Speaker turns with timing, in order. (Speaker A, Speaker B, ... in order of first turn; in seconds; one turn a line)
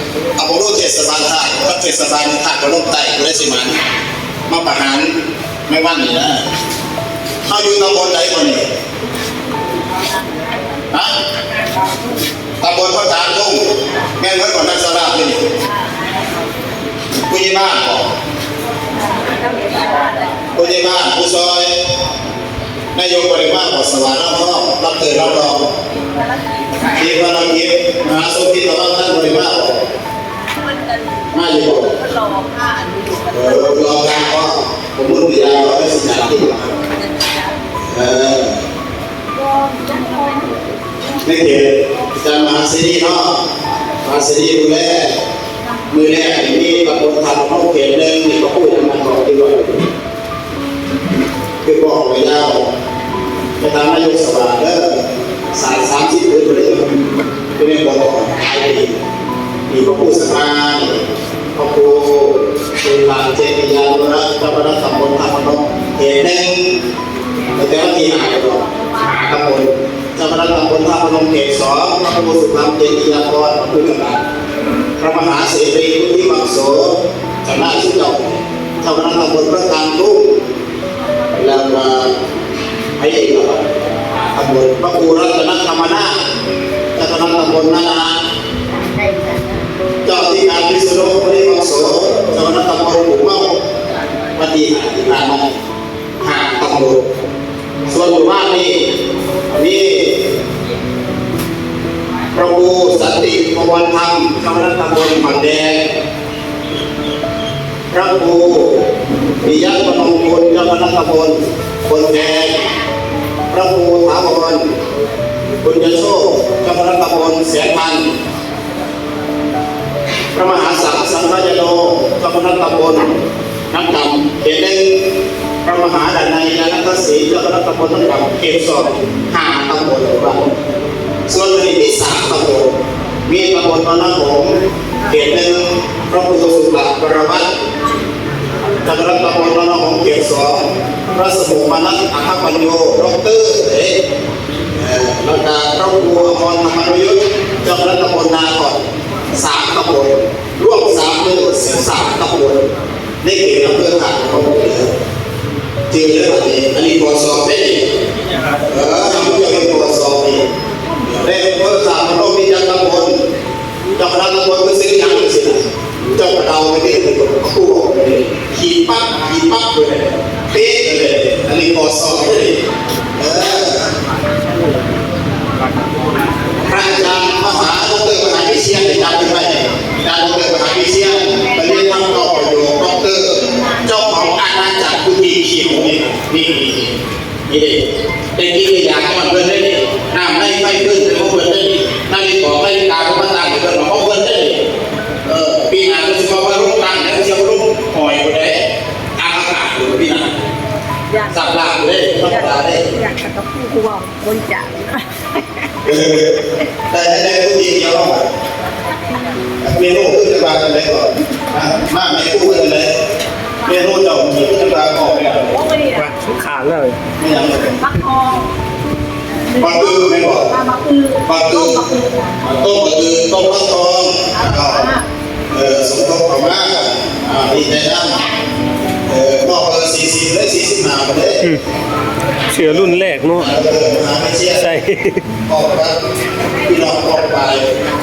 Speaker A: 0.3-3.8
Speaker A: 4.5-5.1
Speaker A: 5.7-6.4
Speaker A: 7.4-8.7
Speaker A: 12.6-13.7
Speaker A: 14.2-15.4
Speaker A: 17.3-18.1
Speaker B: 19.0-20.4
Speaker A: 20.5-21.7
Speaker A: 22.9-25.7
Speaker A: 26.9-29.8
Speaker B: 30.8-31.2
Speaker A: 31.3-32.0
Speaker B: 32.0-33.7
Speaker A: 33.3-36.7
Speaker A: 37.9-38.6
Speaker B: 39.4-40.5
Speaker A: 41.2-43.4
Speaker A: 44.0-45.2
Speaker A: 45.9-49.8
Speaker A: 51.6-52.7
Speaker A: 53.6-57.0
Speaker A: 57.5-59.0
Speaker A: 59.7-61.0
Speaker A: 61.5-66.8
Speaker A: 67.5-74.3
Speaker A: 75.0-80.3
Speaker A: 81.3-82.1
Speaker A: 83.0-83.7
Speaker A: 84.2-86.2
Speaker A: 86.9-88.2
Speaker B: 88.8-89.5
Speaker A: 90.0-93.6
Speaker A: 94.3-95.5
Speaker A: 96.2-97.1
Speaker A: 97.8-98.9
Speaker A: 99.5-100.3
Speaker A: 102.3-105.8
Speaker A: 107.9-108.8
Speaker A: 109.4-112.7
Speaker A: 113.5-114.7
Speaker A: 115.6-118.1
Speaker A: 120.3-123.2
Speaker A: 123.7-124.9
Speaker A: 125.6-130.5
Speaker A: 131.3-132.7
Speaker A: 133.3-134.5
Speaker A: 135.1-137.5
Speaker A: 138.8-144.0
Speaker A: 144.7-148.8
Speaker A: 149.3-152.7
Speaker A: 153.2-154.9
Speaker A: 155.9-157.8
Speaker A: 158.5-160.4
Speaker A: 161.0-163.2
Speaker A: 163.9-172.6
Speaker A: 173.2-173.9
Speaker A: 176.6-186.9
Speaker A: 187.5-194.6
Speaker A: 195.2-198.6
Speaker A: 199.2-200.3
Speaker A: 201.3-202.9
Speaker B: 202.9-205.1
Speaker A: 205.8-206.4
Speaker A: 206.9-208.3
Speaker A: 209.6-212.9
Speaker A: 213.7-215.6
Speaker B: 215.5-216.1
Speaker C: 215.9-217.0
Speaker A: 217.2-217.8
Speaker B: 217.8-218.5
Speaker B: 219.5-222.4
Speaker A: 219.6-220.5
Speaker A: 221.2-221.8
Speaker A: 222.4-224.9
Speaker B: 224.3-225.0
Speaker A: 225.5-228.2
Speaker A: 229.1-231.5
Speaker C: 232.5-233.6
Speaker A: 232.6-234.8
Speaker C: 234.6-235.2
Speaker A: 235.5-236.0
Speaker A: 236.6-237.8